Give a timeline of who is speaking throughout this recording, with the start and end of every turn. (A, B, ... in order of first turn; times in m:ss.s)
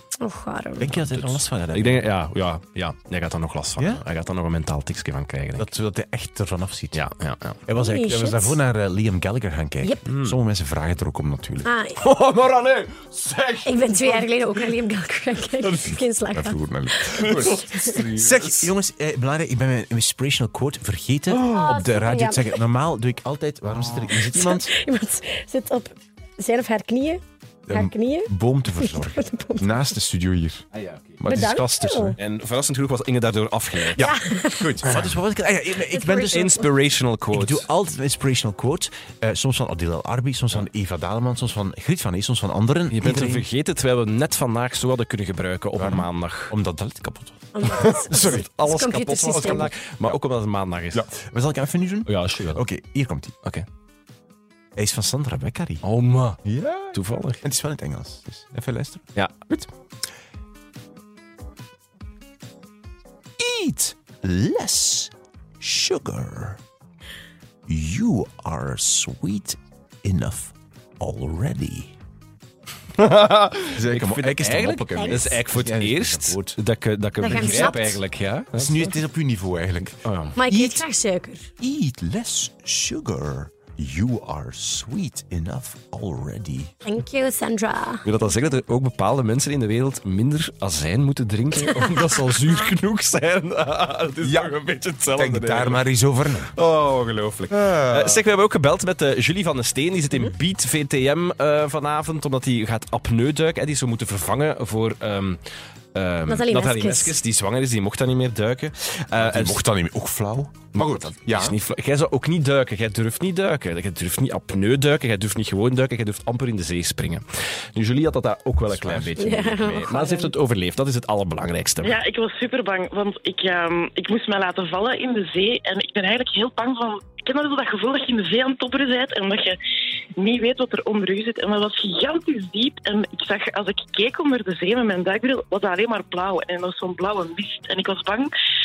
0:00.2-0:01.0 A
0:00.8-0:02.1 B
0:00.9-0:05.7 C
0:05.6-0:07.0 B
0:06.9-0:07.6 C
0:07.7-0:11.7 B
0:07.8-0:08.6 A
0:10.1-0:10.4 C
0:11.6-0:12.0 A
0:12.0-0:14.7 C
0:13.6-0:18.1 A
0:15.5-0:16.0 C
0:16.3-0:24.7 B
0:17.2-0:18.7 C
0:21.3-0:21.8 C
0:21.5-0:22.6 A
0:24.1-0:29.9 A
0:27.7-0:30.7 B
0:30.7-0:31.2 C
0:31.2-0:32.2 B
0:31.2-0:32.2 A
0:32.2-0:34.1 C
0:33.9-0:35.0 A
0:34.0-0:36.6 B
0:35.9-0:36.7 A
0:36.3-0:37.7 C
0:37.3-0:43.5 B
0:42.9-0:46.5 C
0:45.8-0:48.4 B
0:47.5-0:49.7 A
0:47.6-0:51.1 C
0:49.2-0:50.2 B
0:50.9-0:53.4 B
0:52.1-0:52.6 C
0:54.8-0:55.8 B
0:55.8-0:56.4 C
0:56.4-0:59.7 B
0:56.9-0:57.4 C
1:03.4-1:06.6 B
1:07.7-1:12.0 B
1:13.0-1:19.0 C
1:13.7-1:16.6 B
1:15.0-1:15.4 A
1:17.2-1:18.0 A
1:17.4-1:17.7 B
1:18.6-1:20.9 B
1:20.0-1:20.4 C
1:20.4-1:21.5 A
1:21.6-1:26.8 B
1:26.8-1:28.0 A
1:28.0-1:35.8 C
1:34.2-1:34.6 B
1:35.1-1:36.5 B
1:36.4-1:45.4 C
1:37.5-1:38.2 B
1:46.0-1:49.6 C
1:46.3-1:47.2 A
1:49.2-1:51.6 B
1:50.7-2:02.0 C
1:58.7-1:59.1 B
1:59.2-2:00.3 A
2:01.8-2:09.6 D
2:10.2-2:18.3 D